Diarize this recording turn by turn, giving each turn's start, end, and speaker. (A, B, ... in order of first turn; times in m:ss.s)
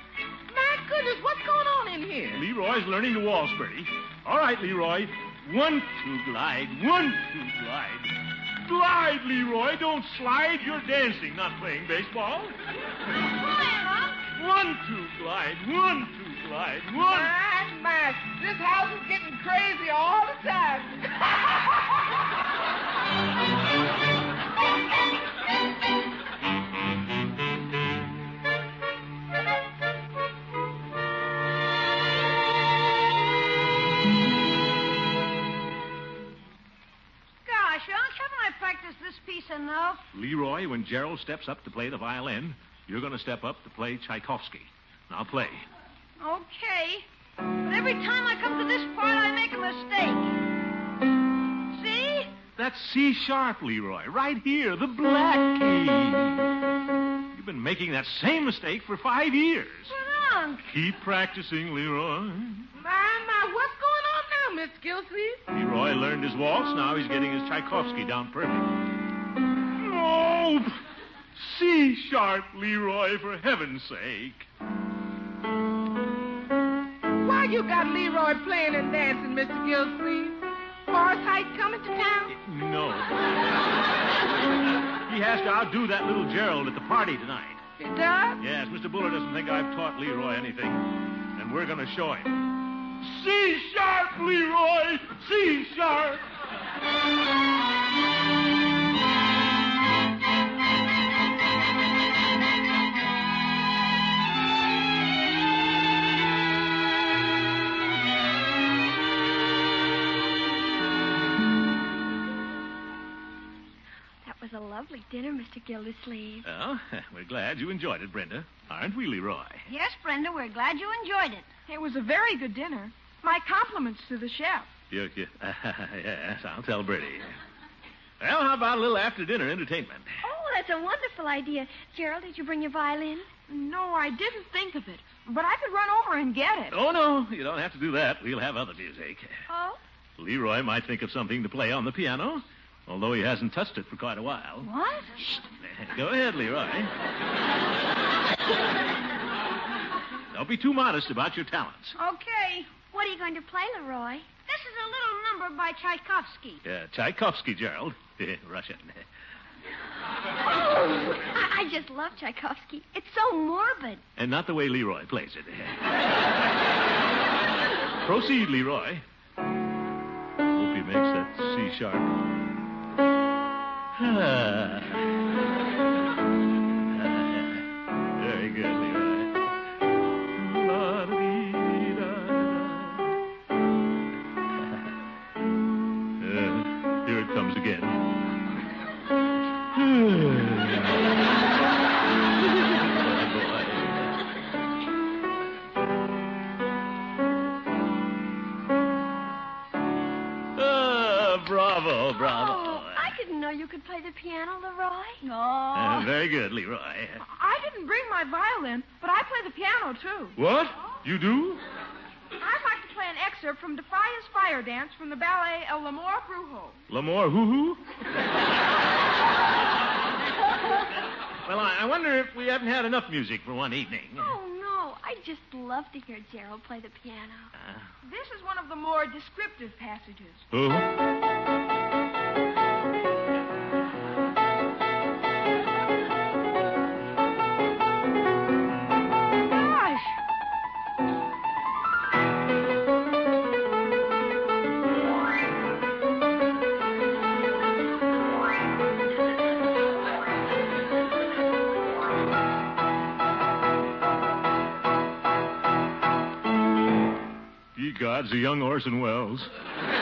0:00.5-0:02.4 A
0:02.3-0:12.6 B
0:13.2-0:14.3 C
0:14.3-0:17.3 B
0:17.0-0:21.3 A
0:37.4-0:40.0 C
0:40.1-0:45.6 B
0:46.2-0:47.1 C
0:47.6-0:50.4 C
0:51.7-0:52.3 C
0:52.6-0:56.5 B
0:57.3-0:59.9 B
0:59.9-1:00.7 C
1:00.7-1:02.7 B
1:02.8-1:05.4 A
1:05.5-1:08.7 B
1:09.8-1:10.8 B
1:11.3-1:14.5 B
1:17.2-1:22.3 A
1:22.3-1:23.3 B
1:25.0-1:27.6 B
1:27.8-1:28.4 A
1:28.4-1:32.4 B
1:33.0-1:36.2 B
1:54.2-1:56.4 D
1:56.4-1:59.6 B
1:59.7-2:01.5 C
2:01.7-2:04.7 E
2:04.9-2:07.3 B
2:08.2-2:10.1 B
2:10.2-2:13.3 D
2:13.5-2:16.7 E
2:16.7-2:19.4 B
2:19.5-2:19.8 D
2:20.2-2:24.7 B
2:24.6-2:25.2 C
2:25.3-2:26.9 B
2:30.3-2:32.0 B
2:32.0-2:32.7 C
2:32.9-2:34.3 D
2:34.5-2:36.6 C
2:36.6-2:39.0 B
2:40.5-2:43.7 D
2:43.5-2:44.0 C
2:44.2-2:45.9 B
2:48.0-2:49.0 B
2:50.5-2:52.1 B
2:54.0-2:55.1 B
2:56.9-2:57.6 B
2:58.2-2:59.4 B
3:00.3-3:03.1 B
3:06.2-3:08.0 B
3:09.7-3:10.9 B
3:12.6-3:14.1 B
3:20.6-3:23.2 B
3:22.2-3:25.2 D
3:25.2-3:26.1 C
3:25.7-3:27.2 B
3:27.2-3:30.4 E
3:30.4-3:31.6 B
3:32.4-3:36.8 E
3:36.9-3:37.8 B
3:41.4-3:44.3 B
3:44.2-3:47.5 D
3:47.6-3:47.8 B
3:48.0-3:50.4 E
3:50.5-3:50.9 B
3:59.5-4:00.2 C
4:17.8-4:19.5 B